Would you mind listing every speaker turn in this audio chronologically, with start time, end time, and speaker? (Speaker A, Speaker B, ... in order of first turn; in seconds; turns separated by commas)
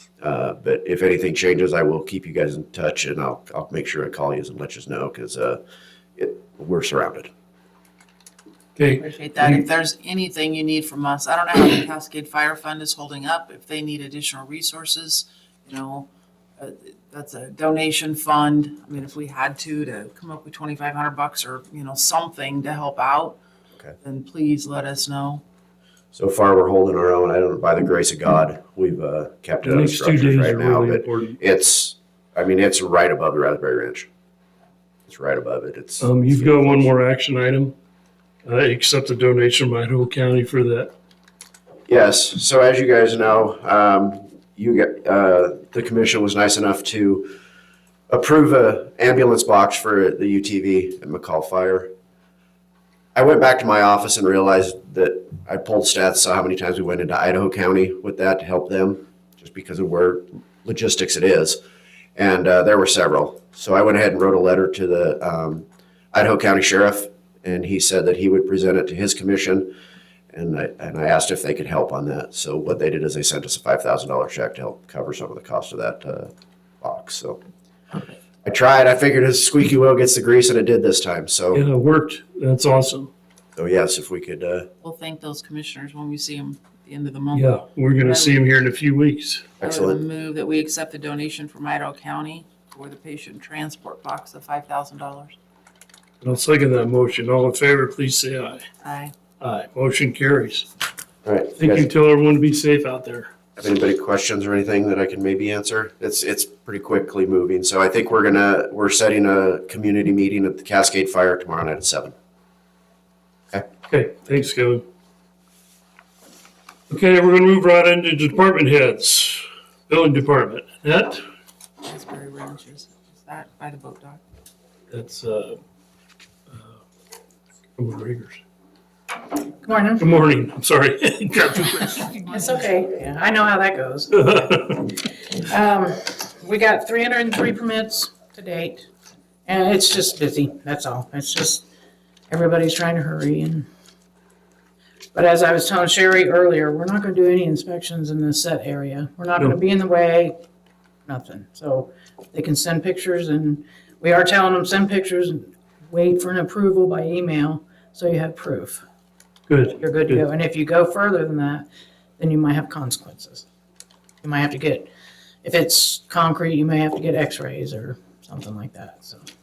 Speaker A: 0.2-5.6, Speaker A: 6.2-7.3, Speaker B: 8.8-9.6, Speaker C: 9.0-23.4, Speaker C: 24.0-25.4, Speaker A: 26.1-34.1, Speaker B: 29.6-31.4, Speaker A: 35.1-36.8, Speaker B: 36.0-37.7, Speaker B: 38.4-40.9, Speaker A: 41.9-47.3, Speaker A: 48.1-51.9, Speaker A: 53.1-61.6, Speaker A: 62.1-69.7, Speaker A: 70.3-77.4, Speaker A: 78.4-81.6, Speaker B: 81.5-83.1, Speaker A: 83.5-84.7, Speaker C: 84.8-88.5, Speaker B: 87.3-89.5, Speaker A: 89.6-90.0, Speaker C: 89.6-95.3, Speaker B: 96.2-98.7, Speaker C: 98.8-99.1, Speaker B: 99.4-100.7, Speaker A: 101.2-101.9, Speaker B: 101.6-103.3, Speaker A: 103.6-112.1, Speaker B: 113.9-114.8, Speaker B: 116.9-121.2, Speaker C: 121.8-124.2, Speaker B: 124.9-125.6, Speaker B: 126.5-126.8, Speaker B: 127.8-128.4, Speaker D: 129.6-130.1, Speaker B: 130.0-132.2, Speaker C: 132.1-132.7, Speaker D: 132.2-138.9, Speaker B: 134.1-134.9, Speaker D: 139.4-141.6, Speaker D: 142.3-143.7, Speaker D: 145.1-150.3, Speaker D: 151.1-158.8, Speaker B: 159.5-160.2, Speaker D: 159.8-161.7, Speaker D: 162.2-163.4, Speaker D: 164.2-164.9, Speaker D: 165.4-169.2